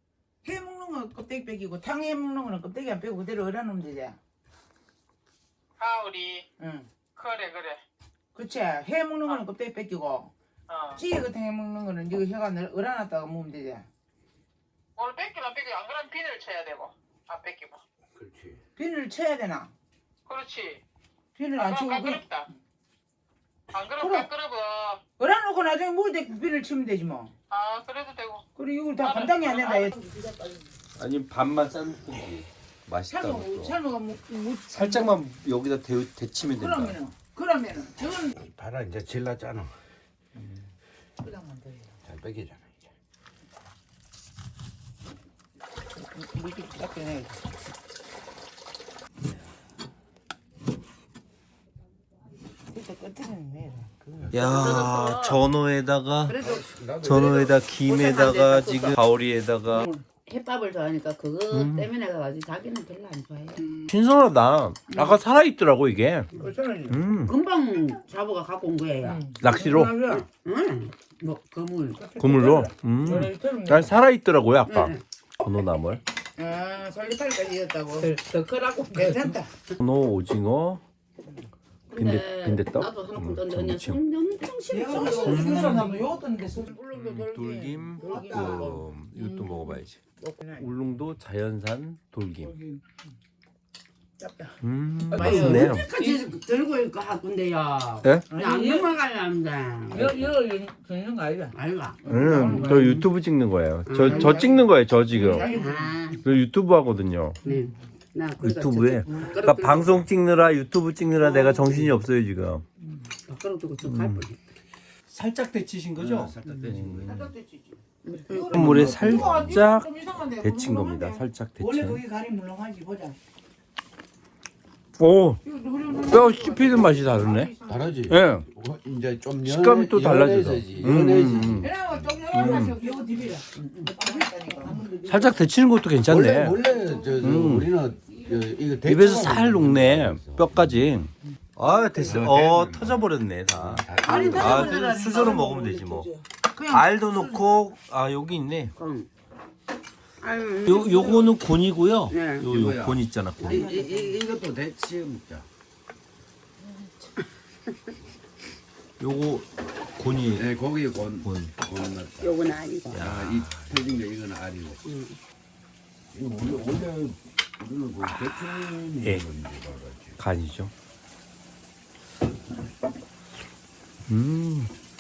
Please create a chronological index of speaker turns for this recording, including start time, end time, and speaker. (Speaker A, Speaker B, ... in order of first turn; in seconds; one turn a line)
Speaker A: 0.4-4.2
Speaker B: 5.8-6.5
Speaker A: 6.6-6.9
Speaker B: 7.2-7.8
Speaker A: 8.3-10.3
Speaker B: 10.7-11.0
Speaker A: 11.0-13.9
Speaker B: 15.0-17.8
Speaker C: 18.2-18.6
Speaker A: 18.8-19.7
Speaker B: 20.3-20.8
Speaker A: 21.4-22.4
Speaker B: 21.7-22.5
Speaker B: 23.7-25.0
Speaker A: 24.0-24.3
Speaker A: 25.2-27.3
Speaker B: 27.5-28.5
Speaker A: 28.6-30.6
Speaker B: 29.0-29.9
Speaker D: 31.0-33.8
Speaker A: 33.1-35.1
Speaker D: 34.7-37.0
Speaker A: 36.5-38.4
Speaker C: 38.3-39.8
Speaker A: 41.2-42.0
Speaker C: 42.0-42.9
Speaker A: 46.1-47.5
Speaker A: 52.7-54.9
Speaker C: 54.3-54.6
Speaker D: 54.3-56.4
Speaker E: 54.5-55.4
Speaker E: 56.3-56.6
Speaker C: 56.3-57.6
Speaker D: 57.0-59.9
Speaker E: 57.8-59.0
Speaker A: 59.8-60.0
Speaker E: 60.3-63.6
Speaker D: 61.5-61.9
Speaker D: 63.9-66.3
Speaker E: 64.9-65.2
Speaker A: 66.4-67.0
Speaker D: 66.9-67.3
Speaker E: 67.2-69.3
Speaker A: 69.0-70.3
Speaker D: 69.4-69.9
Speaker E: 69.9-72.1
Speaker A: 72.0-74.0
Speaker D: 72.2-76.0
Speaker E: 74.7-75.0
Speaker A: 76.4-78.2
Speaker E: 78.0-79.2
Speaker A: 78.9-79.5
Speaker D: 79.8-80.8
Speaker E: 81.9-86.1
Speaker D: 81.9-84.0
Speaker A: 84.7-88.8
Speaker D: 85.0-85.9
Speaker D: 86.9-90.0
Speaker E: 88.0-88.6
Speaker E: 89.2-89.5
Speaker A: 90.2-90.7
Speaker D: 90.6-92.6
Speaker A: 92.5-92.8
Speaker A: 94.2-94.6
Speaker D: 94.6-95.9
Speaker A: 95.1-96.3
Speaker E: 95.1-100.3
Speaker D: 98.0-98.3
Speaker A: 98.3-99.0
Speaker A: 99.9-103.0
Speaker E: 101.5-103.0
Speaker D: 102.1-105.5
Speaker E: 103.9-104.5
Speaker A: 104.0-106.2
Speaker E: 105.3-106.2
Speaker D: 106.2-107.4
Speaker E: 107.4-110.0
Speaker D: 108.4-112.7
Speaker A: 111.4-111.9
Speaker E: 113.3-114.4
Speaker D: 113.8-114.3
Speaker D: 115.1-117.3
Speaker C: 116.0-117.2
Speaker A: 117.0-123.2
Speaker E: 118.0-118.6
Speaker D: 118.5-122.0
Speaker C: 118.6-119.5
Speaker D: 125.0-125.4
Speaker A: 125.5-127.9
Speaker D: 126.1-127.5
Speaker C: 127.7-132.2
Speaker D: 128.1-128.5
Speaker D: 129.4-131.7
Speaker A: 131.5-135.5
Speaker D: 132.3-132.8
Speaker D: 135.1-136.6
Speaker C: 136.1-140.6
Speaker D: 137.2-137.7
Speaker D: 138.8-146.1
Speaker C: 142.0-143.0
Speaker C: 143.5-144.8
Speaker A: 144.0-147.4
Speaker D: 146.7-148.7
Speaker E: 148.8-149.1
Speaker E: 150.2-151.2
Speaker D: 150.7-153.7
Speaker A: 150.8-151.3
Speaker E: 152.1-152.5
Speaker C: 152.5-155.5
Speaker A: 153.4-154.2
Speaker A: 156.6-157.1
Speaker D: 159.0-160.5
Speaker C: 160.3-164.9
Speaker D: 161.2-161.5
Speaker E: 162.2-163.0
Speaker D: 162.9-163.9
Speaker E: 164.8-165.2
Speaker C: 166.1-170.2
Speaker D: 170.2-170.7
Speaker D: 174.1-174.7